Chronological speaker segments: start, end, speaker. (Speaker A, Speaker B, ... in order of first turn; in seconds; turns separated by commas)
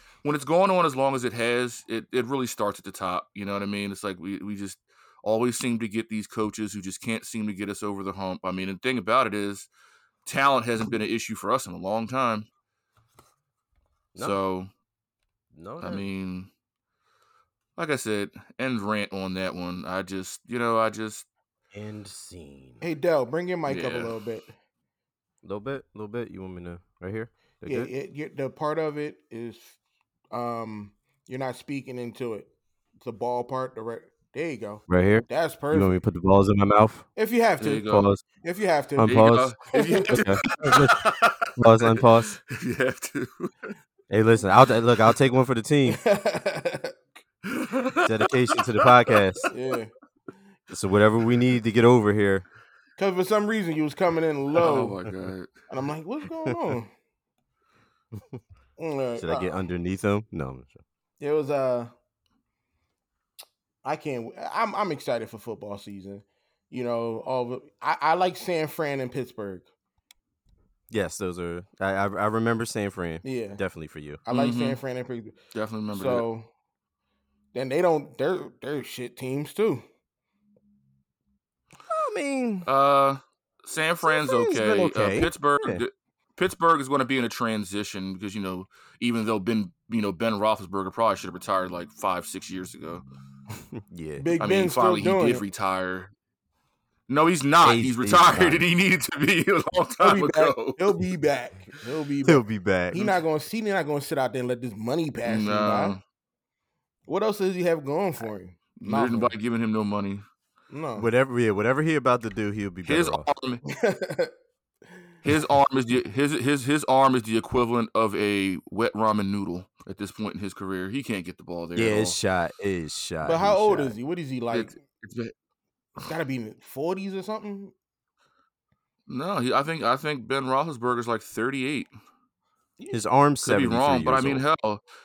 Speaker A: 0.2-9.7, Speaker A: 10.2-12.5, Speaker A: 14.2-14.7, Speaker B: 15.5-16.1, Speaker A: 15.8-16.5, Speaker A: 17.8-21.3, Speaker B: 21.7-22.8, Speaker C: 22.8-24.5, Speaker A: 23.6-24.2, Speaker B: 25.4-27.9, Speaker C: 27.6-29.8, Speaker C: 30.3-32.5, Speaker C: 33.0-35.9, Speaker B: 34.9-37.1, Speaker C: 37.1-37.9, Speaker A: 37.6-38.1, Speaker B: 37.8-38.2, Speaker C: 38.4-40.2, Speaker B: 39.0-39.5, Speaker A: 39.1-43.7, Speaker B: 40.1-42.4, Speaker B: 44.1-46.0, Speaker C: 45.9-47.0, Speaker A: 47.5-49.5, Speaker B: 48.0-49.5, Speaker C: 49.5-49.9, Speaker B: 50.7-52.5, Speaker C: 53.0-55.0, Speaker A: 54.6-55.5, Speaker C: 55.7-56.9, Speaker C: 58.8-59.5, Speaker B: 59.2-60.8, Speaker C: 61.2-61.9, Speaker C: 63.8-69.7, Speaker B: 70.9-74.2, Speaker C: 73.2-73.6, Speaker C: 74.2-75.4, Speaker A: 74.3-74.8, Speaker A: 75.5-76.3, Speaker C: 75.9-76.5, Speaker C: 77.5-79.8, Speaker B: 81.9-82.7, Speaker A: 82.6-93.0, Speaker B: 84.0-85.8, Speaker B: 93.8-94.3, Speaker C: 94.2-95.4, Speaker A: 94.4-96.1, Speaker A: 97.1-100.8, Speaker B: 97.6-98.7, Speaker C: 100.0-106.0, Speaker B: 102.2-103.1, Speaker A: 105.2-106.0, Speaker C: 107.1-109.3, Speaker A: 108.8-110.3, Speaker C: 110.7-111.1, Speaker B: 111.0-113.3, Speaker A: 112.8-113.6, Speaker C: 113.7-114.3, Speaker A: 115.2-122.2, Speaker B: 121.7-124.0, Speaker C: 123.2-124.8, Speaker A: 124.5-125.3, Speaker C: 126.0-127.7, Speaker A: 129.1-131.9, Speaker B: 132.9-134.4, Speaker A: 133.4-134.8